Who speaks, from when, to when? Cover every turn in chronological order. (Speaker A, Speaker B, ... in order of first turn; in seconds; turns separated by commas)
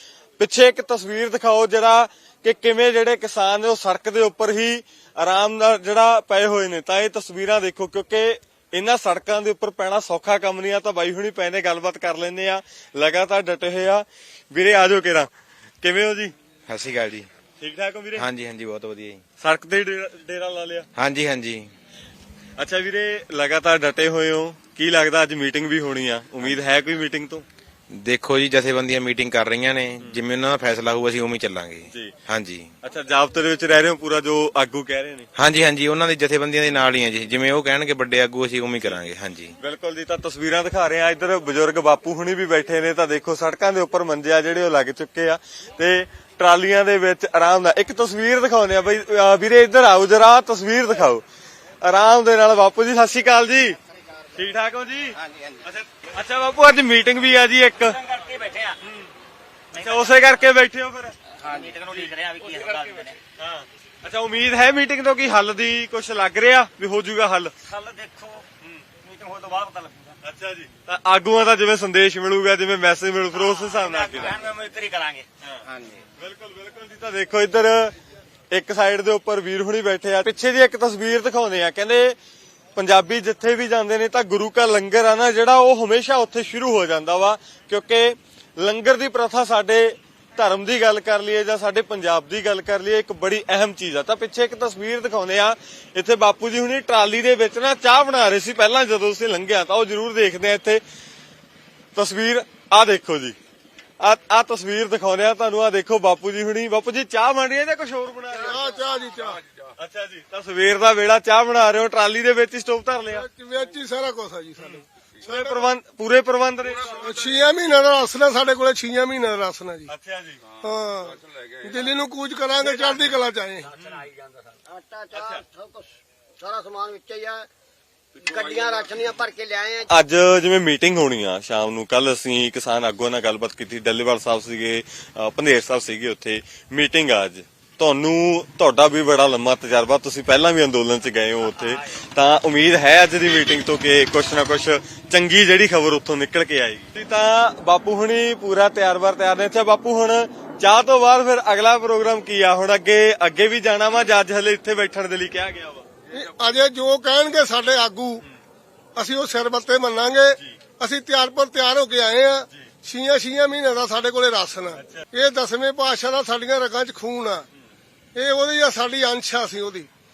Speaker A: 0.4-15.3, Speaker A: 15.8-16.3, Speaker B: 16.7-17.3, Speaker A: 17.6-18.3, Speaker B: 18.1-19.2, Speaker A: 19.4-20.9, Speaker B: 20.9-21.7, Speaker A: 22.6-27.4, Speaker B: 27.9-32.7, Speaker A: 32.8-35.3, Speaker B: 35.4-39.5, Speaker A: 39.6-51.2, Speaker A: 51.8-53.8, Speaker A: 54.3-58.0, Speaker C: 57.9-58.8, Speaker A: 58.8-59.1, Speaker A: 59.7-61.2, Speaker C: 59.7-60.1, Speaker C: 61.4-63.2, Speaker A: 63.4-67.5, Speaker C: 67.6-68.5, Speaker C: 69.0-70.2, Speaker A: 70.2-74.5, Speaker C: 73.3-75.2, Speaker A: 76.2-77.9, Speaker A: 78.5-82.2, Speaker A: 82.8-100.8, Speaker A: 101.9-103.3, Speaker A: 104.0-108.7, Speaker D: 108.3-109.4, Speaker E: 108.5-109.2, Speaker A: 109.8-113.3, Speaker D: 113.1-115.6, Speaker A: 114.6-117.5, Speaker D: 116.8-119.9, Speaker A: 119.9-120.4, Speaker D: 120.6-123.7, Speaker C: 123.6-124.5, Speaker A: 123.8-124.0, Speaker E: 124.7-127.5, Speaker A: 125.1-125.4, Speaker E: 128.2-129.9, Speaker A: 129.9-155.8, Speaker C: 141.6-141.9, Speaker D: 156.1-158.2, Speaker D: 158.9-167.4, Speaker A: 164.8-165.1, Speaker D: 168.1-169.9